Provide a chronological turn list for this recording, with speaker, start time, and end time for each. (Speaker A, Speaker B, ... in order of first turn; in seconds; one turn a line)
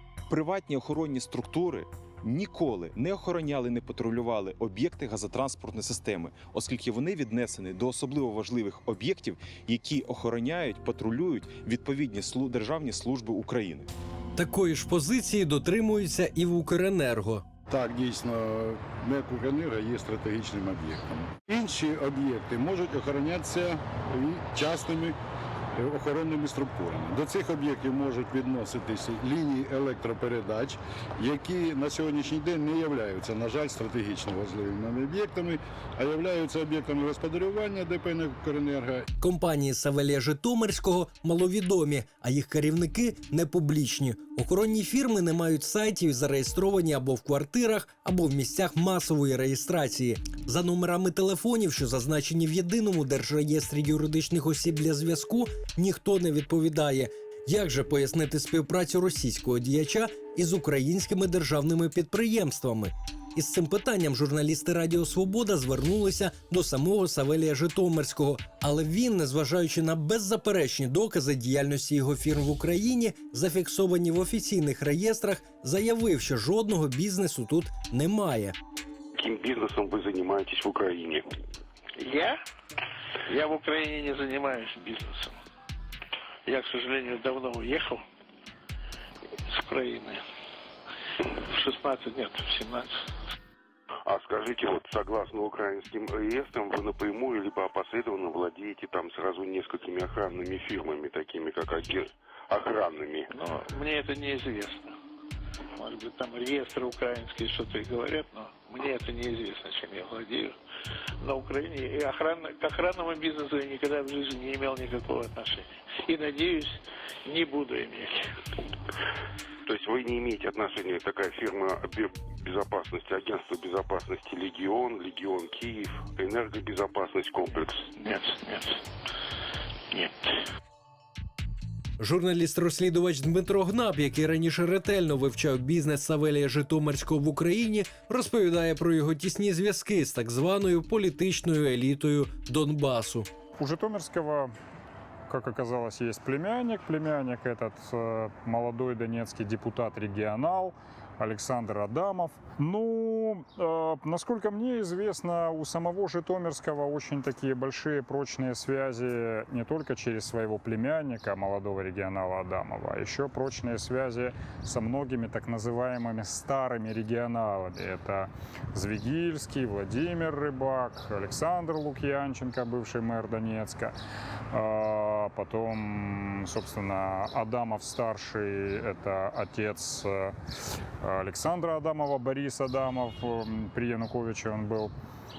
Speaker A: 0.3-13.9
Speaker B: 14.3-17.4
Speaker C: 17.7-25.1
Speaker C: 25.8-39.0
Speaker B: 39.2-78.5
Speaker D: 79.2-81.2
Speaker E: 82.0-82.4
Speaker E: 83.3-85.3
Speaker E: 86.5-88.0
Speaker E: 89.5-90.2
Speaker E: 91.5-92.9
Speaker D: 94.0-103.3
Speaker E: 103.3-104.9
Speaker E: 105.8-110.5
Speaker E: 111.2-118.2
Speaker D: 119.7-127.9
Speaker E: 128.0-128.8
Speaker B: 132.0-143.3
Speaker F: 143.6-144.5
Speaker F: 145.3-173.9
Speaker F: 174.5-180.3
Speaker F: 181.0-184.9